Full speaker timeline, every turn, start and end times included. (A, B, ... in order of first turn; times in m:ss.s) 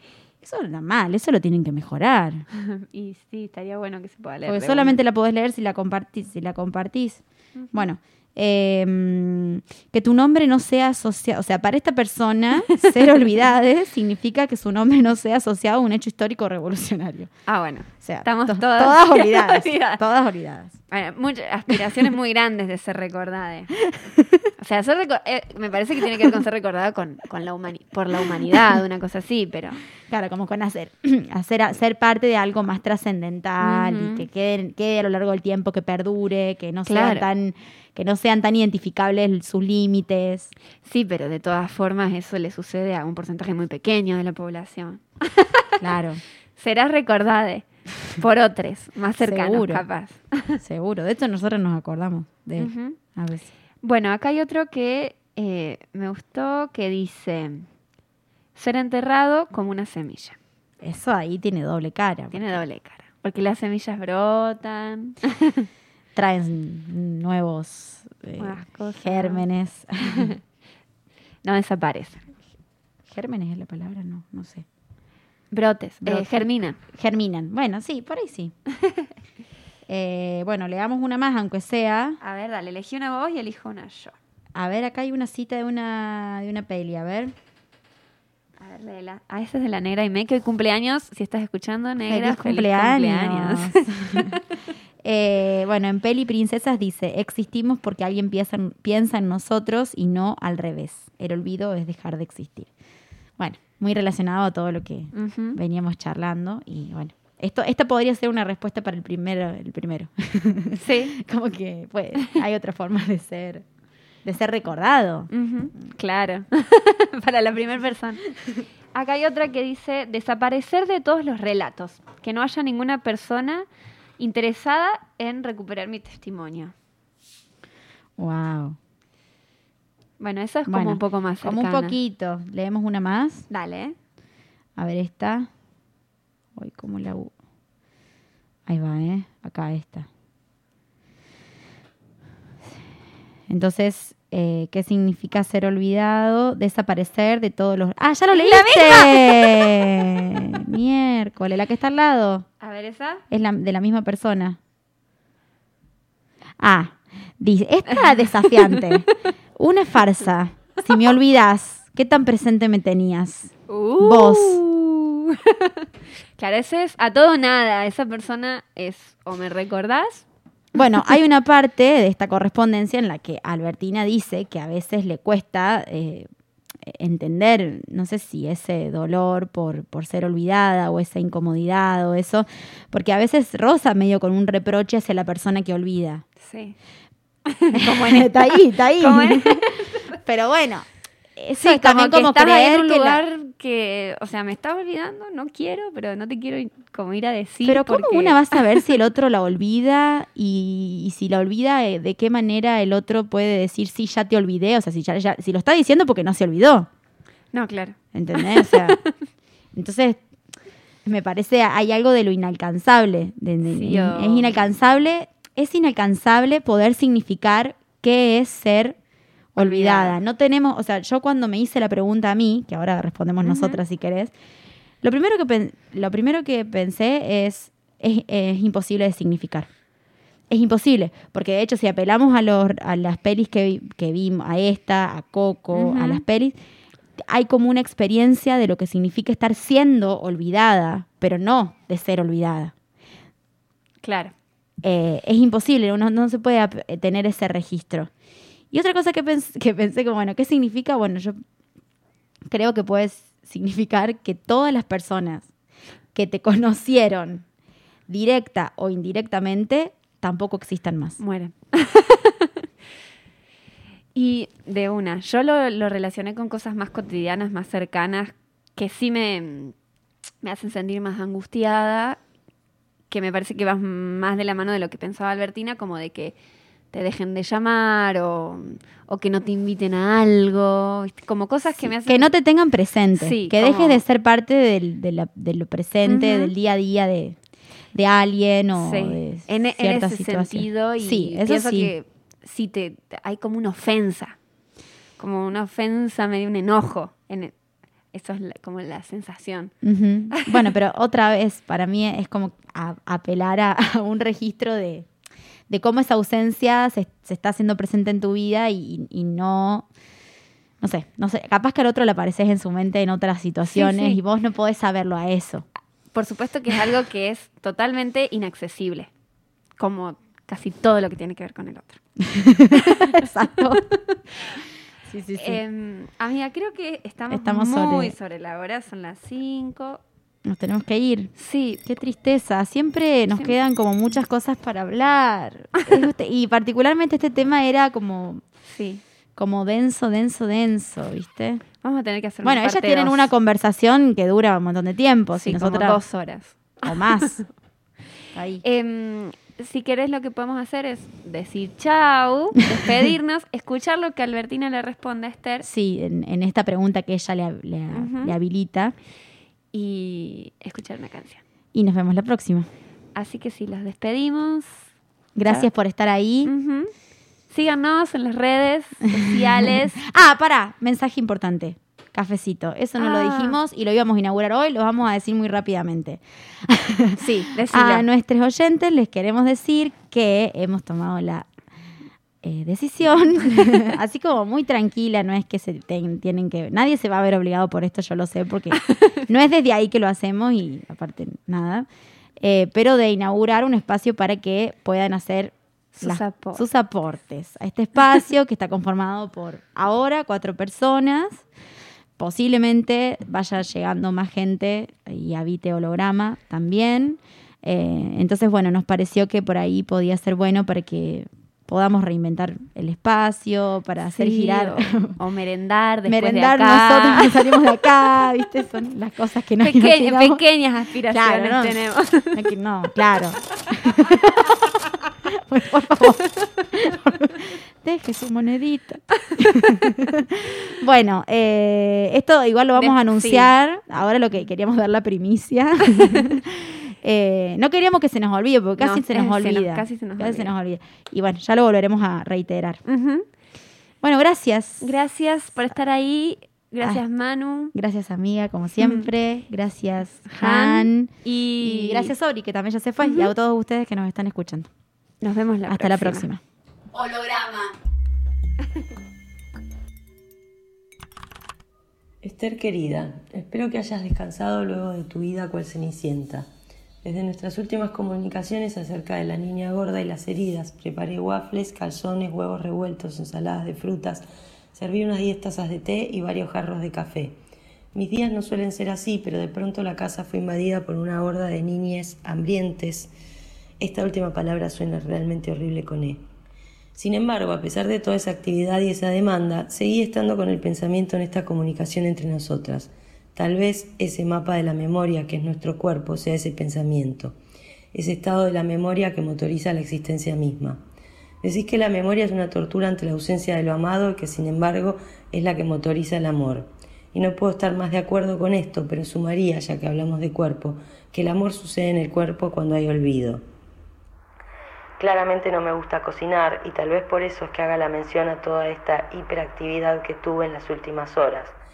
0:00.4-0:02.4 A
0:02.5-0:05.0 B
0:04.4-0:17.3 A
0:07.6-0:07.8 B
0:17.5-0:20.0 B
0:17.9-0:20.8 A
0:20.9-0:23.8 B
0:23.9-0:24.2 A
0:24.6-0:29.8 B
0:30.1-0:40.5 A
0:33.6-0:34.3 B
0:36.8-0:37.3 B
0:40.8-0:45.7 B
0:45.8-0:46.2 A
0:46.6-0:50.6 B
0:49.2-0:49.8 A
0:50.6-0:53.5 A
0:52.6-0:53.0 B
0:53.8-0:57.7 B
0:58.5-1:00.4 B
1:00.8-1:02.6 A
1:02.3-1:05.7 B
1:06.1-1:10.3 A
1:08.4-1:09.4 B
1:10.0-1:10.4 B
1:11.4-1:12.3 B
1:13.1-1:14.6 A
1:15.5-1:16.8 B
1:16.0-1:18.5 A
1:19.9-1:22.2 A
1:22.2-1:24.2 B
1:24.5-1:27.4 A
1:28.6-1:34.4 B
1:32.1-1:34.3 A
1:35.0-1:42.7 A
1:43.4-1:53.6 A
1:45.1-1:45.6 B
1:50.8-1:51.1 B
1:54.2-1:55.3 A
1:55.3-1:58.2 B
1:58.9-2:03.6 B
2:04.2-2:06.7 B
2:08.2-2:08.8 A
2:10.2-2:12.0 B
2:10.7-2:13.5 A
2:13.5-2:14.0 B
2:14.8-2:15.5 A
2:16.6-2:17.3 A
2:18.7-2:20.1 A
2:23.5-2:32.5 A
2:28.3-2:29.8 B
2:32.6-2:33.2 B
2:33.3-2:34.6 A
2:36.6-2:44.6 A
2:37.9-2:38.8 B
2:43.7-2:50.2 B
2:50.7-2:56.3 A
2:56.8-3:06.2 A
3:06.4-3:06.8 B
3:07.4-3:08.4 B
3:07.7-3:13.2 A
3:09.0-3:10.0 B
3:11.6-3:18.6 B
3:17.6-3:26.9 A
3:27.5-3:29.1 B
3:28.1-3:29.0 A
3:29.7-3:30.2 A
3:31.0-3:39.0 A
3:33.6-3:34.6 B
3:39.5-3:44.3 A
3:39.6-3:40.2 B
3:43.4-3:43.8 B
3:45.0-3:49.7 A
3:50.5-3:56.6 A
3:55.7-3:56.2 B
3:57.2-4:02.7 A
4:04.0-4:04.3 B
4:04.8-4:08.1 A
4:08.7-4:11.4 A
4:12.5-4:15.5 A
4:16.1-4:17.4 A
4:18.1-4:21.2 A
4:21.2-4:22.6 B
4:24.1-4:29.7 B
4:30.4-4:32.2 B
4:33.1-4:36.4 B
4:36.9-4:42.3 B
4:41.7-4:47.4 A
4:43.2-4:44.0 B
4:46.0-4:46.5 B
4:47.9-4:51.9 A
4:48.8-4:54.4 B
4:55.2-4:57.5 B
4:58.1-4:59.7 B
4:59.8-5:05.1 A
5:00.3-5:00.7 B
5:05.7-5:09.9 A
5:10.8-5:15.6 A
5:13.7-5:14.2 B
5:16.1-5:19.1 B
5:19.8-5:22.0 B
5:22.2-5:23.8 A
5:22.8-5:23.2 B
5:25.0-5:25.6 A
5:25.3-5:30.0 B
5:27.3-5:28.1 A
5:30.4-5:31.3 A
5:31.4-5:31.8 B
5:31.8-5:38.4 A
5:38.6-5:39.0 B
5:39.4-5:41.6 A
5:41.8-5:43.3 B
5:42.4-5:46.0 A
5:45.4-5:47.4 B
5:46.8-5:47.4 A
5:48.3-5:48.6 A
5:48.6-5:55.6 B
5:55.6-5:58.9 A
5:57.9-5:58.4 B
5:59.7-6:01.4 B
6:01.7-6:02.7 A
6:03.2-6:04.8 B
6:05.3-6:06.5 A
6:06.4-6:06.9 B
6:07.5-6:10.0 B
6:10.0-6:21.5 A
6:13.0-6:13.6 B
6:17.2-6:18.0 B
6:22.4-6:41.4 A
6:28.7-6:29.2 B
6:36.0-6:36.6 B
6:42.2-6:55.2 A
6:54.0-6:57.6 B
6:56.1-7:00.4 A
6:59.6-7:02.5 B
7:01.1-7:01.8 A
7:02.3-7:04.8 A
7:05.3-7:22.8 A
7:09.2-7:09.8 B
7:12.8-7:13.5 B
7:18.8-7:20.5 B
7:22.8-7:23.2 B
7:24.0-7:24.9 A
7:24.8-7:27.7 B
7:27.7-7:34.7 A
7:28.8-7:29.1 B
7:30.3-7:32.1 B
7:33.0-7:33.3 B
7:35.2-7:36.3 B
7:35.7-7:36.4 A
7:36.9-7:37.7 A
7:42.2-7:46.4 C
7:47.0-7:57.4 C
7:57.9-8:03.1 C
8:03.8-8:06.2 C
8:06.9-8:17.4 C
8:17.9-8:20.8 C
8:21.4-8:33.4 C
8:35.0-8:41.5 C